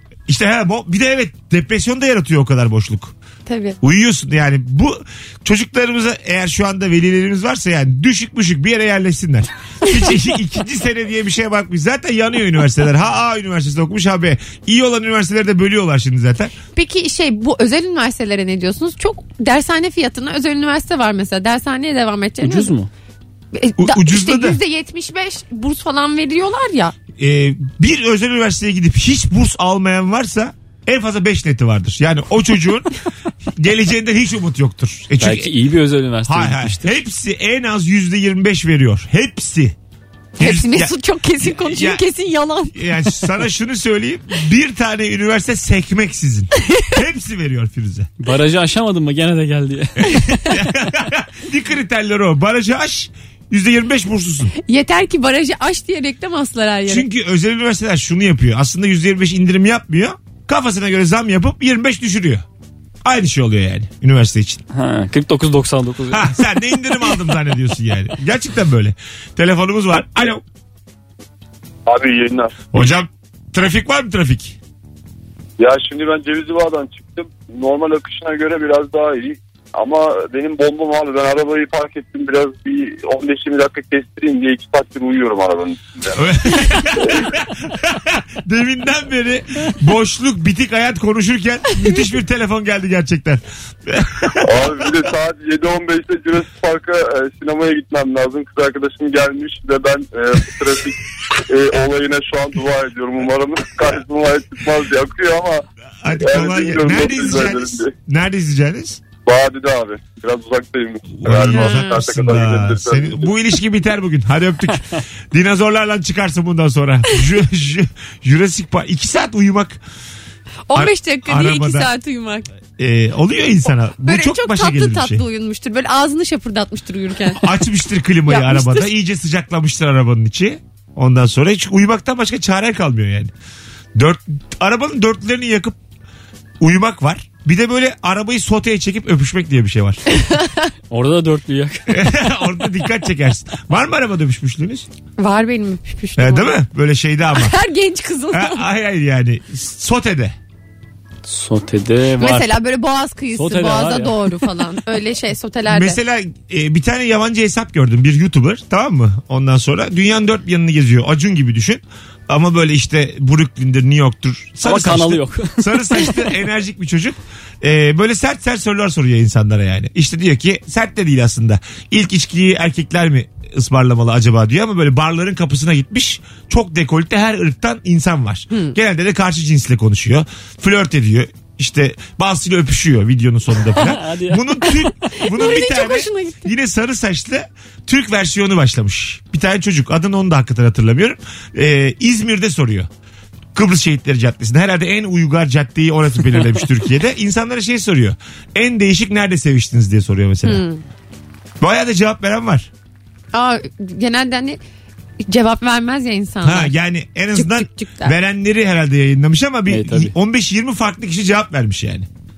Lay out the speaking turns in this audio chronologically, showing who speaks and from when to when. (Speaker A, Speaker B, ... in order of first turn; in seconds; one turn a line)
Speaker A: 0.3-3.1
Speaker B: 3.5-3.8
Speaker A: 3.8-16.5
Speaker B: 16.8-22.7
Speaker C: 22.4-22.9
Speaker B: 23.5-26.9
Speaker A: 23.8-24.6
Speaker A: 27.2-32.9
Speaker A: 33.6-35.5
Speaker C: 35.2-36.9
Speaker A: 36.3-39.8
Speaker A: 40.4-42.0
Speaker B: 40.4-42.9
Speaker A: 42.7-48.1
Speaker C: 48.2-50.6
Speaker A: 50.0-54.5
Speaker B: 54.6-57.1
Speaker A: 56.9-62.5
Speaker A: 63.0-64.6
Speaker C: 64.7-66.3
Speaker A: 66.1-70.4
Speaker D: 71.9-72.7
Speaker A: 72.7-74.6
Speaker D: 75.6-86.2
Speaker A: 86.2-94.5
Speaker D: 87.0-87.3
Speaker D: 94.4-105.6
Speaker A: 106.0-109.0
Speaker D: 106.2-107.9
Speaker D: 109.2-113.2
Speaker A: 111.2-119.8
Speaker B: 111.5-112.0
Speaker B: 120.7-122.5
Speaker A: 120.8-121.9
Speaker A: 122.8-125.2
Speaker B: 124.0-127.4
Speaker A: 127.3-133.3
Speaker B: 128.3-128.9
Speaker A: 134.0-135.8
Speaker A: 136.6-140.0
Speaker B: 140.1-140.7
Speaker C: 140.9-142.1
Speaker A: 141.9-144.9
Speaker B: 145.2-146.5
Speaker A: 146.2-147.6
Speaker B: 147.3-148.6
Speaker A: 148.3-150.3
Speaker C: 151.3-152.6
Speaker B: 152.2-156.0
Speaker C: 153.3-154.3
Speaker A: 155.7-192.9
Speaker C: 164.6-166.1
Speaker C: 183.8-184.4
Speaker B: 185.1-186.5
Speaker A: 193.6-200.6
Speaker B: 200.4-200.8
Speaker A: 201.6-202.7
Speaker B: 203.3-204.6
Speaker B: 205.2-206.7
Speaker A: 206.4-212.1
Speaker B: 207.3-208.2
Speaker C: 209.7-210.1